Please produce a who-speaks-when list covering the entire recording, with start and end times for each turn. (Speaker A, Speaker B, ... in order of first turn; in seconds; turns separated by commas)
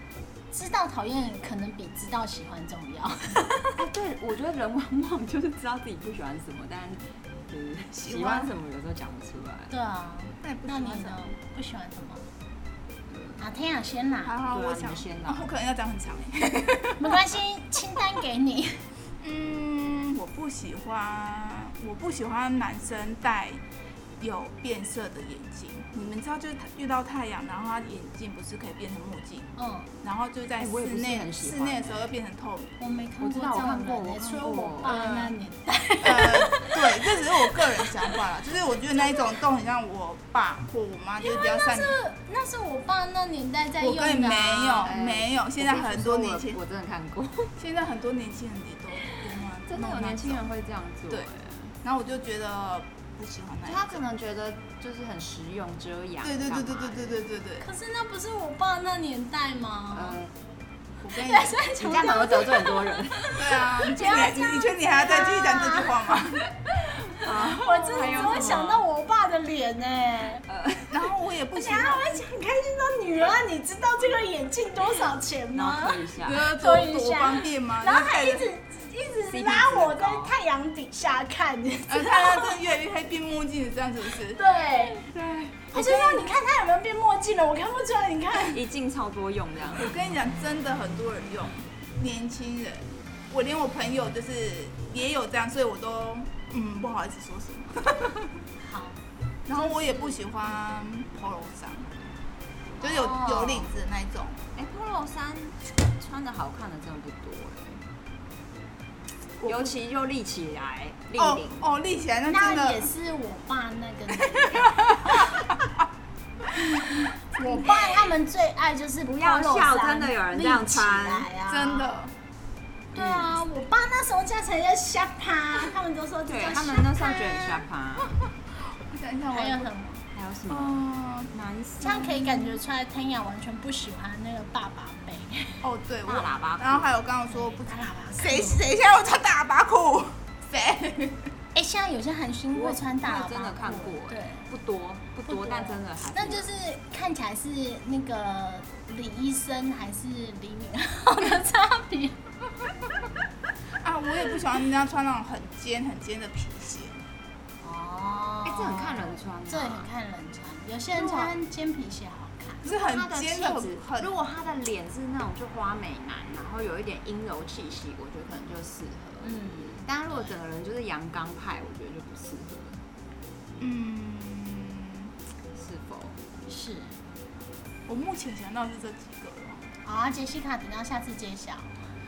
Speaker A: 0.5-3.6, Speaker B: 3.8-9.7, Speaker C: 7.9-8.5, Speaker A: 9.7-12.3, Speaker C: 10.4-11.2, Speaker B: 13.1-13.5, Speaker A: 13.4-14.3, Speaker C: 14.2-17.3, Speaker B: 14.5-15.5, Speaker A: 17.0-18.9, Speaker C: 19.2-23.6, Speaker C: 24.2-29.5, Speaker A: 29.6-29.9, Speaker C: 30.0-32.8, Speaker B: 30.6-32.1, Speaker A: 32.8-36.8, Speaker B: 33.2-35.0, Speaker C: 34.8-35.4, Speaker C: 36.0-42.0, Speaker A: 38.9-39.3, Speaker A: 41.2-44.9, Speaker C: 43.8-46.6, Speaker B: 44.8-47.5, Speaker C: 47.6-50.5, Speaker B: 49.7-51.8, Speaker C: 51.8-54.0, Speaker B: 53.6-57.2, Speaker C: 56.2-57.7, Speaker A: 57.6-60.2, Speaker B: 59.9-60.3, Speaker C: 61.0-61.6, Speaker A: 61.1-66.2, Speaker B: 61.8-63.5, Speaker C: 63.4-66.5, Speaker B: 67.1-68.8, Speaker A: 67.2-70.5, Speaker B: 70.5-71.0, Speaker C: 70.9-72.2, Speaker A: 71.5-82.5, Speaker B: 75.5-76.5, Speaker C: 76.2-78.5, Speaker B: 79.3-80.3, Speaker C: 81.9-84.4, Speaker A: 84.3-85.0, Speaker B: 84.8-85.8, Speaker A: 85.7-88.6, Speaker C: 85.7-86.3, Speaker B: 88.5-90.0, Speaker C: 89.7-98.1, Speaker A: 98.6-99.0, Speaker C: 99.5-101.9, Speaker A: 102.8-103.7, Speaker C: 102.8-104.4, Speaker B: 104.5-107.8, Speaker B: 109.4-111.7, Speaker C: 109.4-109.8, Speaker C: 111.2-112.9, Speaker A: 112.3-115.3, Speaker C: 117.4-117.8, Speaker A: 117.4-121.9, Speaker B: 119.0-121.3, Speaker C: 121.5-122.2, Speaker B: 122.9-123.4, Speaker A: 122.9-127.7, Speaker B: 126.3-128.2, Speaker C: 128.9-129.7, Speaker A: 129.3-130.1, Speaker B: 130.1-132.6, Speaker C: 130.5-131.3, Speaker A: 131.8-135.6, Speaker C: 135.6-141.3, Speaker B: 136.1-136.9, Speaker A: 137.3-138.7, Speaker A: 141.5-144.5, Speaker B: 142.5-146.5, Speaker A: 145.3-152.2, Speaker C: 153.8-157.0, Speaker A: 157.6-162.7, Speaker B: 158.4-159.9, Speaker B: 160.9-161.3, Speaker B: 162.6-172.8, Speaker C: 162.7-164.1, Speaker A: 169.2-170.3, Speaker C: 173.6-175.1, Speaker B: 175.6-176.2, Speaker A: 176.5-177.0, Speaker C: 177.9-179.7, Speaker A: 179.8-181.8